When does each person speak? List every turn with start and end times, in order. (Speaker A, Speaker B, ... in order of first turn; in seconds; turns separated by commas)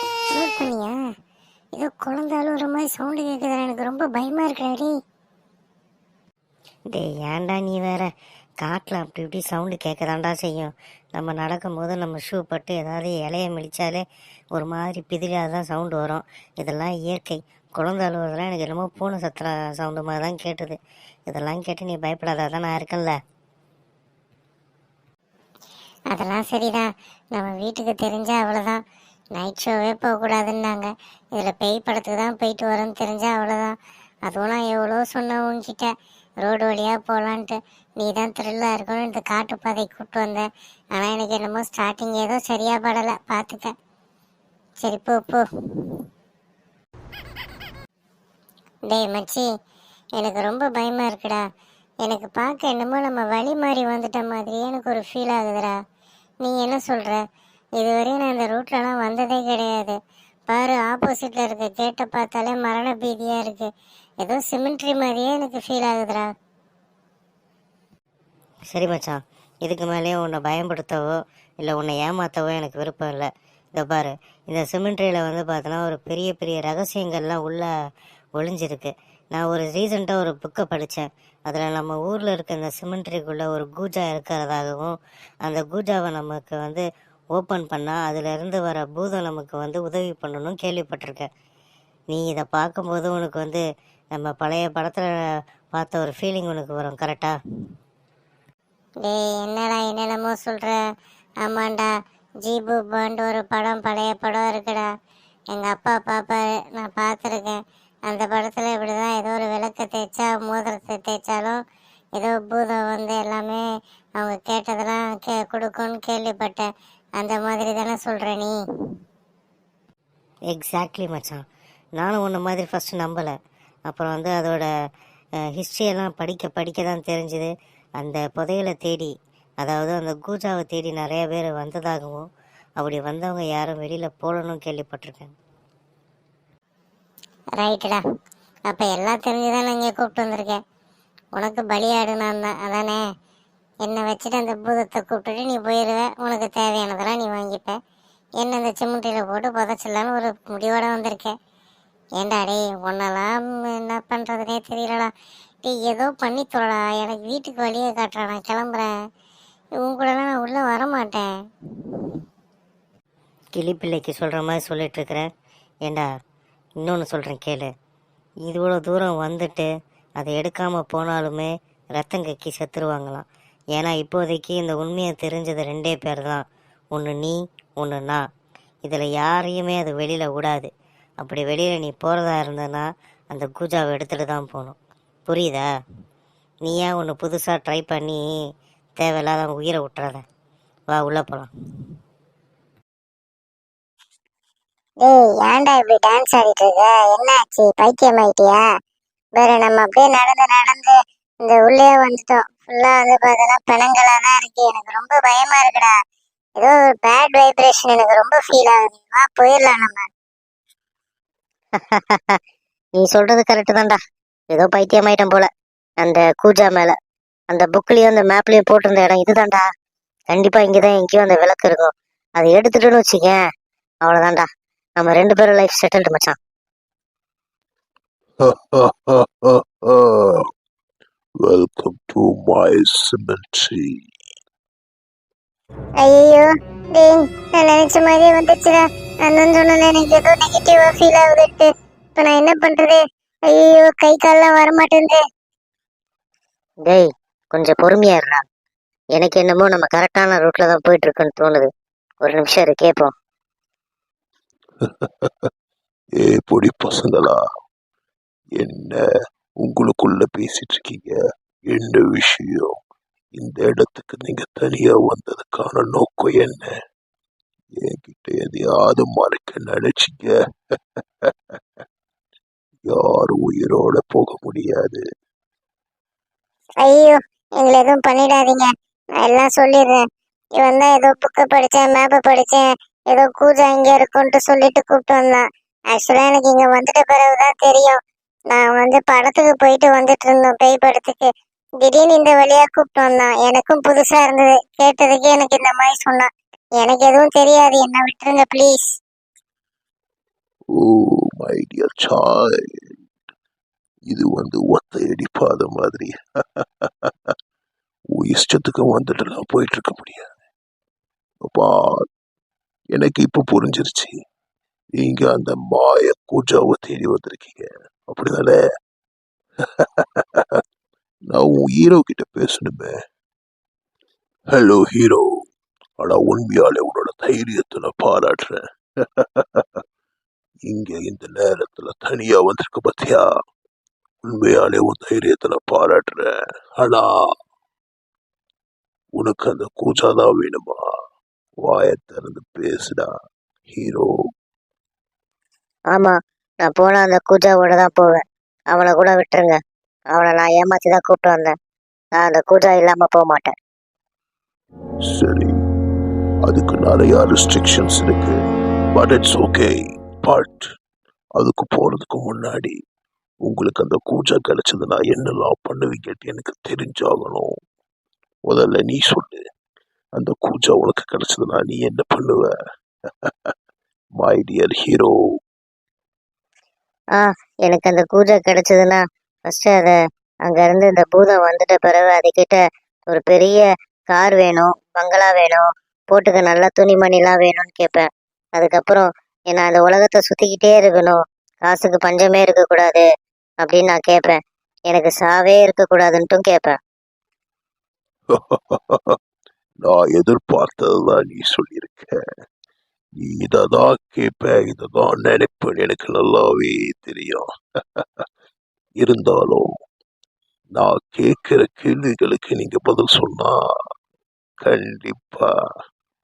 Speaker A: 0.3-0.9, Speaker A: 1.8-4.9, Speaker B: 6.9-23.2, Speaker A: 26.1-28.8, Speaker A: 29.4-33.8, Speaker A: 34.3-35.9, Speaker A: 36.4-43.7, Speaker A: 44.8-45.9, Speaker A: 48.9-49.5, Speaker A: 50.2-51.4, Speaker A: 52.0-55.7, Speaker A: 56.4-57.2, Speaker A: 57.8-60.0, Speaker A: 60.5-63.7, Speaker A: 64.2-66.3, Speaker B: 68.7-77.7, Speaker B: 78.4-91.3, Speaker B: 92.1-93.6, Speaker B: 94.2-95.1, Speaker B: 95.7-97.3, Speaker A: 99.0-100.8, Speaker A: 101.5-101.9, Speaker A: 102.5-104.9, Speaker A: 105.5-111.6, Speaker A: 112.2-113.6, Speaker A: 114.2-116.7, Speaker A: 117.2-118.5, Speaker B: 120.5-121.4, Speaker B: 122.0-123.3, Speaker B: 123.9-124.7, Speaker B: 125.6-132.2, Speaker B: 132.8-135.3, Speaker A: 137.6-138.0, Speaker A: 138.7-140.6, Speaker A: 141.4-143.0, Speaker A: 143.8-147.8, Speaker A: 148.4-151.3, Speaker A: 152.2-155.1, Speaker A: 155.7-158.9, Speaker A: 159.8-161.3, Speaker B: 163.6-165.3, Speaker B: 166.8-167.7, Speaker B: 168.5-169.7, Speaker B: 170.2-178.2, Speaker B: 178.8-180.7, Speaker B: 181.2-184.8, Speaker B: 185.3-185.7, Speaker B: 186.7-188.2, Speaker B: 189.0-190.2, Speaker B: 190.9-191.5, Speaker A: 195.0-198.6, Speaker A: 199.4-205.9, Speaker A: 206.6-210.1, Speaker B: 211.8-212.4, Speaker B: 213.0-214.0, Speaker B: 214.5-215.5, Speaker B: 216.0-217.0, Speaker B: 217.5-219.7, Speaker B: 220.3-223.4, Speaker B: 224.0-224.5, Speaker B: 225.0-226.4, Speaker C: 228.4-230.4, Speaker C: 231.4-233.9, Speaker A: 236.0-243.0, Speaker A: 243.5-245.2, Speaker B: 246.9-248.4, Speaker B: 249.2-251.7, Speaker B: 252.2-253.1, Speaker C: 254.8-255.5, Speaker C: 256.2-257.4, Speaker C: 258.6-259.0, Speaker C: 259.6-261.2, Speaker C: 261.7-262.7, Speaker C: 263.4-266.7, Speaker C: 267.8-270.3, Speaker C: 272.9-275.0, Speaker A: 276.8-278.7, Speaker A: 279.2-280.0, Speaker A: 280.6-285.4, Speaker A: 285.9-288.0, Speaker A: 288.5-291.3, Speaker A: 291.8-296.3, Speaker A: 296.8-298.9, Speaker C: 300.8-302.6, Speaker C: 304.1-306.2, Speaker C: 308.1-310.3, Speaker C: 311.4-312.0, Speaker C: 312.9-314.2, Speaker C: 315.0-318.6, Speaker C: 321.3-323.0, Speaker C: 324.5-325.3, Speaker C: 326.0-328.6, Speaker C: 329.4-329.7, Speaker C: 330.7-333.3, Speaker C: 334.3-337.3, Speaker C: 339.2-340.9, Speaker C: 341.6-343.1, Speaker C: 343.7-344.1, Speaker B: 345.9-348.2, Speaker B: 348.7-349.6, Speaker B: 350.1-351.5, Speaker B: 352.2-353.6, Speaker C: 355.1-355.6, Speaker C: 356.5-358.4, Speaker C: 358.9-360.7, Speaker C: 361.4-362.8, Speaker C: 363.4-367.5, Speaker C: 368.5-369.4, Speaker C: 370.2-372.5, Speaker C: 374.2-375.2, Speaker B: 377.2-380.0, Speaker B: 380.5-393.1, Speaker B: 393.6-394.4, Speaker B: 394.9-396.8, Speaker C: 398.3-399.2, Speaker C: 399.8-402.2, Speaker C: 403.2-407.4, Speaker C: 408.0-408.2, Speaker C: 409.0-409.7, Speaker C: 410.8-413.6, Speaker C: 414.6-415.5